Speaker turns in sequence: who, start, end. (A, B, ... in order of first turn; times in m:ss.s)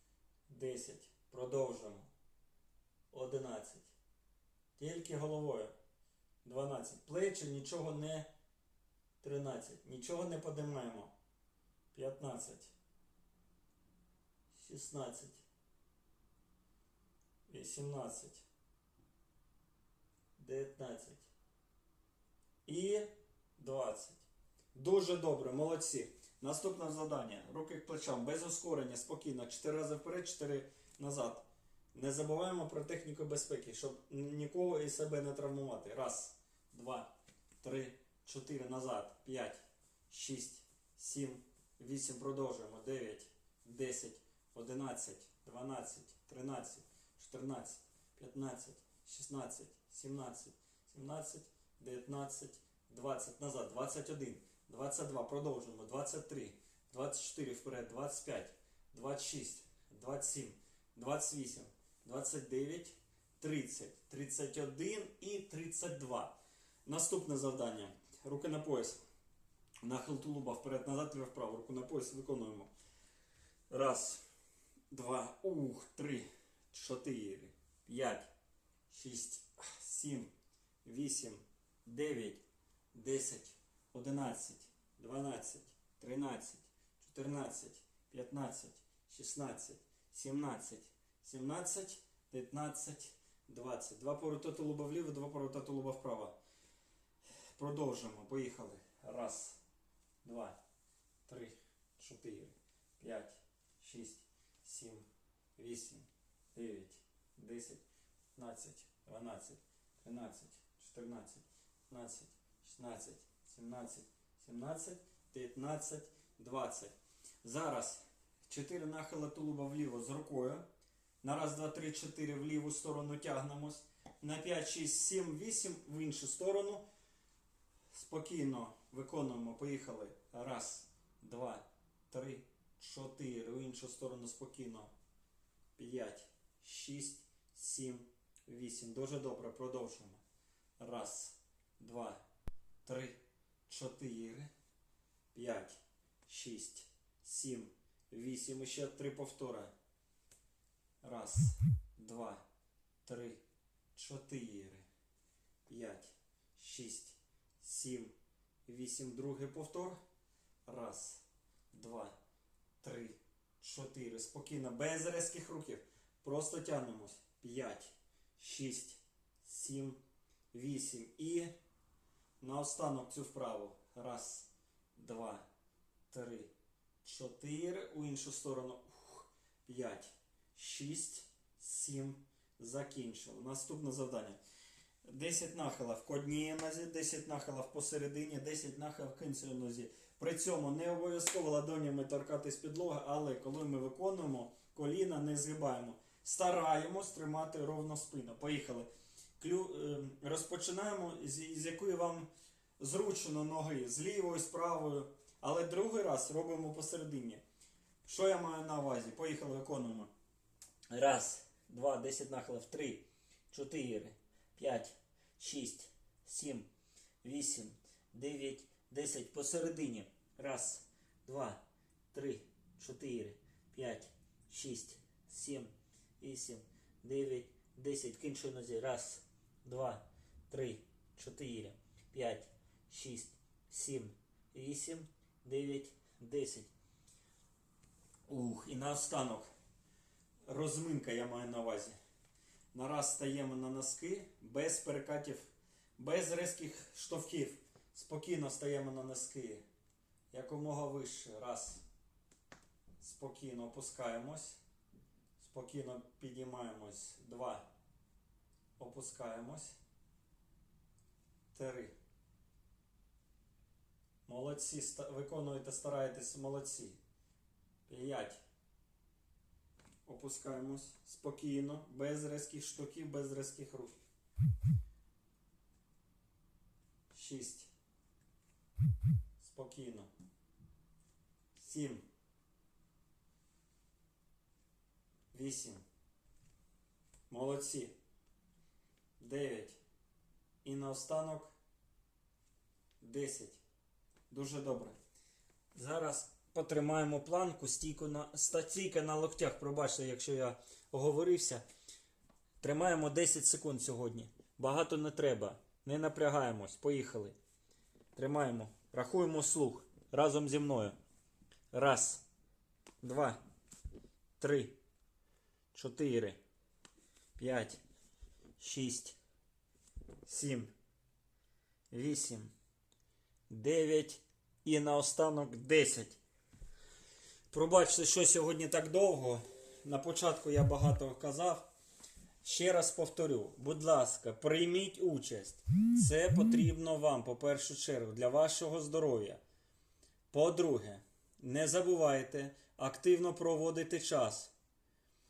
0:00.5-0:02.1 A
0:03.1-0:03.9 A
0:04.8-0:05.7 A
0:06.4-0:08.3 A
0:09.2-0:11.1 A
0:11.9-0:12.7 A
0:14.5-0:15.4 A
0:17.5-0:18.4 A
0:20.4-0:21.3 A
0:22.7-0:37.1 A
0:37.6-1:06.4 A
1:06.9-1:09.0 A
1:09.8-1:12.7 A
1:13.7-1:14.2 A
1:14.9-1:18.3 A
1:18.9-1:20.3 A
1:20.8-1:22.4 A
1:22.9-1:36.4 A
1:37.6-1:39.6 A
1:40.2-1:40.6 A
1:41.3-1:47.8 A
1:48.4-2:00.6 A
2:01.2-2:06.8 A
2:07.9-2:14.9 A
2:15.8-2:20.2 A
2:20.8-2:22.2 A
2:22.8-2:24.5 A
2:25.3-2:29.7 A
2:31.0-2:32.4 A
2:33.0-2:33.4 A
2:34.0-2:34.9 A
2:35.7-2:38.1 A
2:38.7-2:40.0 A
2:40.7-2:42.2 A
2:42.8-2:50.0 A
2:50.5-2:51.5 A
2:52.4-2:55.4 A
2:56.1-2:56.5 A
2:57.0-3:04.4 A
3:05.0-3:18.9 A
3:19.4-3:27.4 A
3:28.0-3:30.1 A
3:30.9-3:36.7 A
3:37.2-3:41.6 A
3:42.1-3:56.7 A
3:58.3-3:59.5 A
4:00.5-4:02.0 A
4:02.7-4:09.6 A
4:10.3-4:11.8 A
4:13.0-4:14.6 A
4:15.4-4:17.7 A
4:18.8-4:19.8 A
4:21.5-4:21.9 A
4:24.3-4:27.0 A
4:27.9-4:28.4 A
4:30.0-4:34.0 A
4:37.1-4:37.7 A
4:39.4-4:40.1 A
4:41.6-4:42.0 A
4:45.3-4:45.8 A
4:47.3-4:48.0 A
4:49.2-4:49.8 A
4:50.6-4:51.5 A
4:53.0-4:53.6 A
4:54.3-4:55.0 A
4:55.7-5:01.6 A
5:02.6-5:07.4 A
5:08.2-5:11.0 A
5:11.7-5:12.2 A
5:13.0-5:13.4 A
5:14.4-5:14.8 A
5:15.7-5:16.4 A
5:17.4-5:17.8 A
5:18.6-5:19.2 A
5:20.2-5:20.7 A
5:21.9-5:22.5 A
5:23.5-5:26.2 A
5:27.5-5:31.7 A
5:32.4-5:39.4 A
5:40.3-5:44.5 A